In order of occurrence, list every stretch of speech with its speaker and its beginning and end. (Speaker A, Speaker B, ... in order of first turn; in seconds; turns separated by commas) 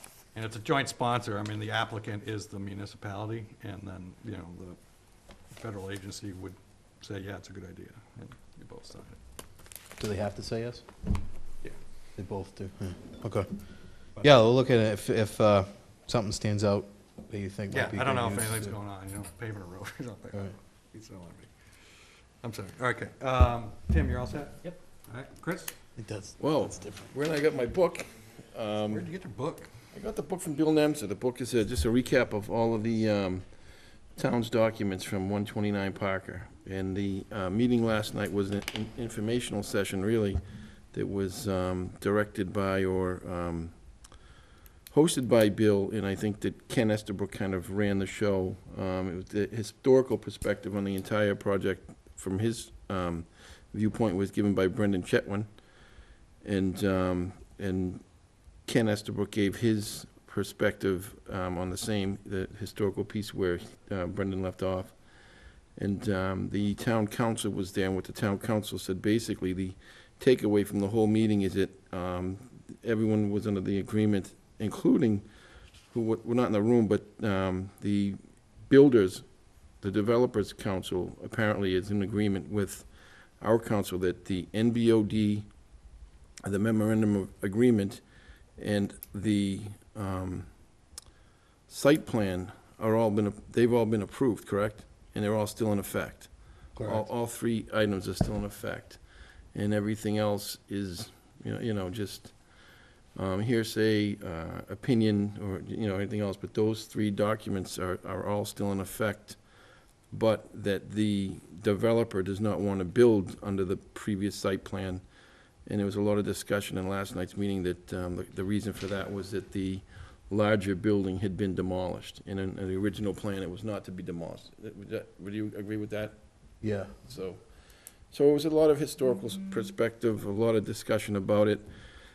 Speaker A: 0.3-4.8, Speaker A: 5.5-9.2, Speaker B: 10.0-10.9, Speaker B: 12.2-18.8, Speaker A: 17.7-25.7, Speaker B: 26.0-27.1, Speaker C: 26.4-29.1, Speaker A: 28.9-29.7, Speaker C: 29.9-33.5, Speaker C: 34.1-40.4, Speaker C: 40.9-43.8, Speaker C: 44.9-55.5, Speaker C: 56.4-58.1, Speaker C: 58.6-65.0, Speaker C: 65.8-75.2, Speaker C: 75.9-79.2, Speaker C: 79.8-82.9, Speaker C: 83.4-85.5, Speaker C: 86.4-88.0, Speaker C: 88.6-90.5, Speaker C: 91.7-96.3, Speaker B: 96.8-97.1, Speaker C: 96.8-99.0, Speaker C: 99.5-102.3, Speaker C: 103.1-109.4, Speaker C: 110.1-115.0, Speaker C: 115.7-126.2, Speaker B: 126.6-127.0, Speaker C: 127.0-127.4, Speaker C: 128.1-131.7